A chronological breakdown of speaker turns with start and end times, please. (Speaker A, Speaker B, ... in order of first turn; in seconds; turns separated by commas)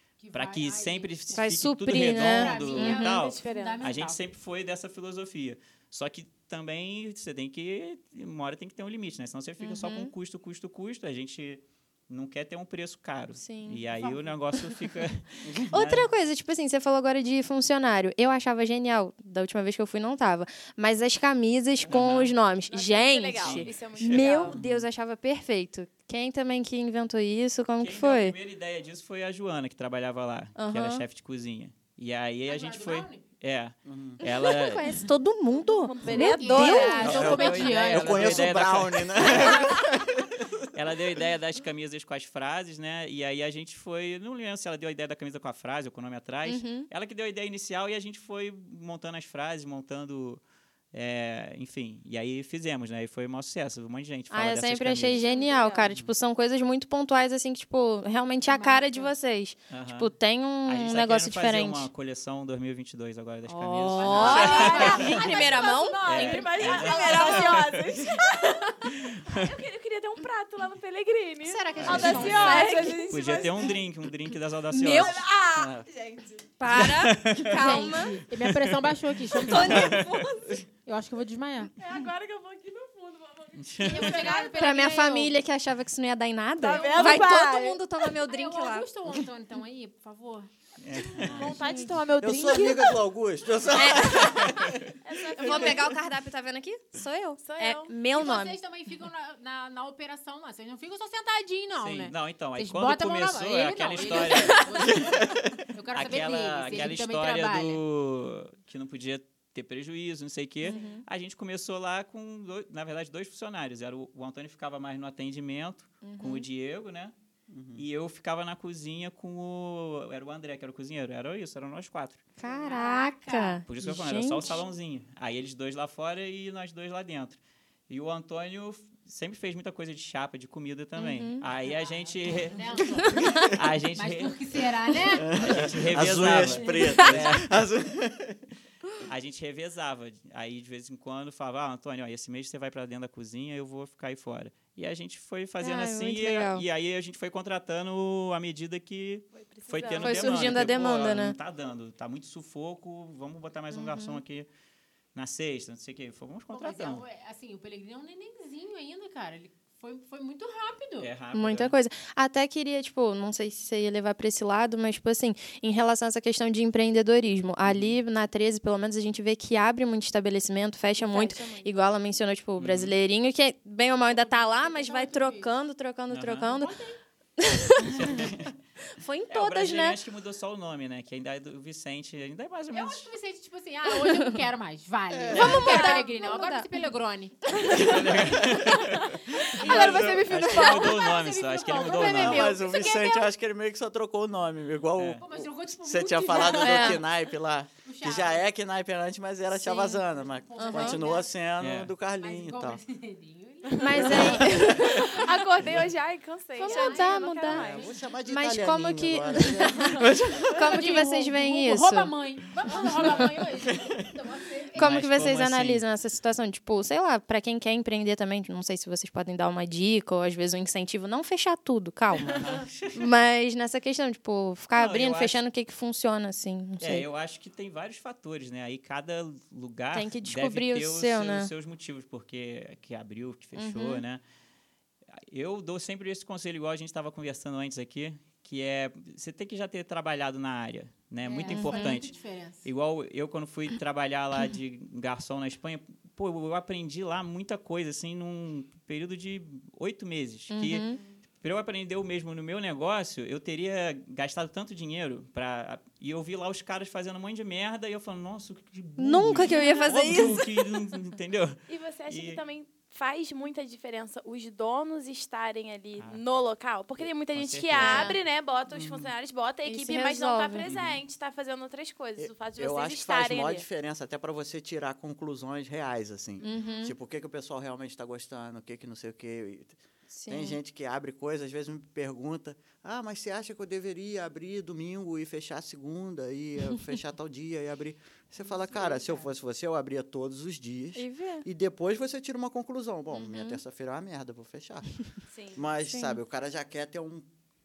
Speaker A: 0.2-4.2, Speaker B: 0.3-16.1, Speaker C: 1.3-3.1, Speaker D: 2.7-3.8, Speaker C: 9.6-10.1, Speaker C: 13.4-13.8, Speaker A: 13.9-14.3, Speaker E: 15.4-15.7, Speaker C: 15.7-28.4, Speaker B: 21.9-22.3, Speaker D: 22.7-24.6, Speaker B: 23.4-24.3, Speaker E: 24.4-24.8, Speaker B: 27.8-35.1, Speaker C: 30.6-31.0, Speaker A: 32.5-33.2, Speaker E: 33.8-34.2, Speaker C: 34.2-37.5, Speaker D: 35.5-37.3, Speaker A: 36.0-38.4, Speaker B: 37.0-39.9, Speaker E: 37.0-40.5, Speaker B: 40.7-50.4, Speaker C: 46.5-46.9, Speaker B: 50.9-55.2, Speaker C: 54.3-61.9, Speaker D: 55.0-55.9, Speaker A: 58.5-59.1, Speaker B: 59.7-60.1, Speaker B: 60.6-65.2, Speaker C: 63.6-67.7, Speaker D: 63.9-73.8, Speaker A: 63.9-65.8, Speaker B: 66.0-68.2, Speaker B: 68.9-69.6, Speaker C: 71.4-73.0, Speaker E: 71.8-72.6, Speaker B: 71.8-75.2, Speaker C: 74.7-75.2, Speaker D: 74.8-76.5, Speaker E: 75.6-75.8, Speaker C: 76.6-78.2, Speaker B: 76.7-77.8, Speaker A: 77.5-80.0, Speaker B: 78.4-80.3, Speaker C: 79.3-80.6, Speaker A: 80.8-81.7, Speaker D: 81.8-84.8, Speaker B: 83.6-84.2, Speaker A: 83.8-85.3, Speaker C: 84.6-88.9, Speaker D: 86.6-87.8, Speaker A: 86.6-87.3, Speaker A: 88.2-91.8, Speaker B: 90.8-91.6, Speaker D: 91.2-93.0, Speaker C: 91.5-91.9, Speaker E: 92.2-95.8, Speaker C: 93.7-94.6, Speaker B: 94.2-94.9, Speaker D: 95.0-96.0, Speaker C: 95.4-98.6, Speaker D: 97.4-97.9, Speaker A: 98.1-107.8, Speaker B: 101.8-105.3, Speaker D: 104.1-104.8, Speaker E: 105.0-105.5, Speaker B: 105.9-117.1, Speaker C: 110.6-111.0, Speaker C: 116.0-116.5, Speaker E: 117.5-117.8, Speaker B: 117.7-122.2, Speaker C: 122.4-124.6, Speaker A: 122.4-123.6, Speaker B: 123.7-134.4, Speaker C: 130.9-131.4, Speaker A: 131.6-135.7, Speaker C: 133.1-133.5, Speaker E: 135.1-138.4, Speaker B: 135.3-137.6, Speaker C: 136.8-137.0, Speaker B: 139.0-154.5, Speaker C: 145.6-146.6, Speaker D: 149.3-150.6, Speaker C: 150.0-151.4, Speaker C: 153.7-154.2, Speaker B: 155.1-157.0, Speaker A: 156.5-161.1, Speaker B: 161.0-161.8, Speaker C: 161.3-176.7, Speaker B: 167.6-168.0, Speaker D: 171.0-171.8, Speaker B: 172.6-173.0, Speaker A: 174.1-175.6, Speaker B: 176.1-176.6, Speaker A: 176.5-177.0, Speaker C: 177.4-178.3, Speaker B: 177.9-178.5, Speaker C: 178.9-180.0, Speaker B: 179.3-183.1, Speaker A: 182.7-187.4, Speaker E: 185.1-185.6, Speaker C: 185.3-186.8, Speaker C: 187.5-188.8, Speaker B: 187.7-192.6, Speaker E: 187.7-188.7, Speaker C: 189.4-191.0, Speaker A: 189.5-193.3, Speaker E: 189.6-190.2, Speaker E: 192.0-202.8, Speaker B: 194.9-195.2, Speaker A: 195.2-197.0, Speaker C: 196.5-197.0, Speaker A: 197.8-198.4, Speaker C: 199.5-200.0, Speaker A: 199.8-201.3, Speaker C: 200.6-201.0, Speaker B: 201.6-201.9, Speaker A: 202.2-205.6, Speaker D: 203.7-207.9, Speaker C: 203.8-205.2, Speaker E: 204.1-204.4, Speaker A: 206.6-207.2, Speaker C: 206.6-207.7, Speaker E: 207.5-210.8, Speaker C: 208.2-212.1, Speaker A: 210.7-215.0, Speaker E: 213.0-214.0, Speaker B: 214.7-215.8, Speaker C: 214.8-227.1, Speaker B: 222.3-223.1, Speaker B: 224.7-225.4, Speaker B: 226.8-234.2, Speaker C: 229.9-231.5, Speaker C: 233.6-234.0, Speaker B: 235.2-250.8, Speaker A: 241.2-242.7, Speaker C: 241.4-242.0, Speaker C: 250.5-251.0, Speaker D: 250.9-251.1, Speaker B: 251.4-262.4, Speaker C: 259.0-260.5, Speaker D: 261.7-273.6, Speaker B: 267.0-268.1, Speaker C: 267.8-268.1, Speaker A: 267.8-268.1, Speaker E: 268.7-269.1, Speaker C: 269.6-270.7, Speaker B: 270.6-271.0, Speaker E: 272.2-294.9, Speaker C: 276.4-276.9, Speaker A: 276.5-276.8, Speaker C: 280.1-280.6, Speaker A: 288.7-289.2, Speaker C: 290.9-291.4, Speaker C: 293.1-293.6, Speaker D: 295.3-295.6, Speaker E: 295.5-297.3, Speaker C: 295.9-296.2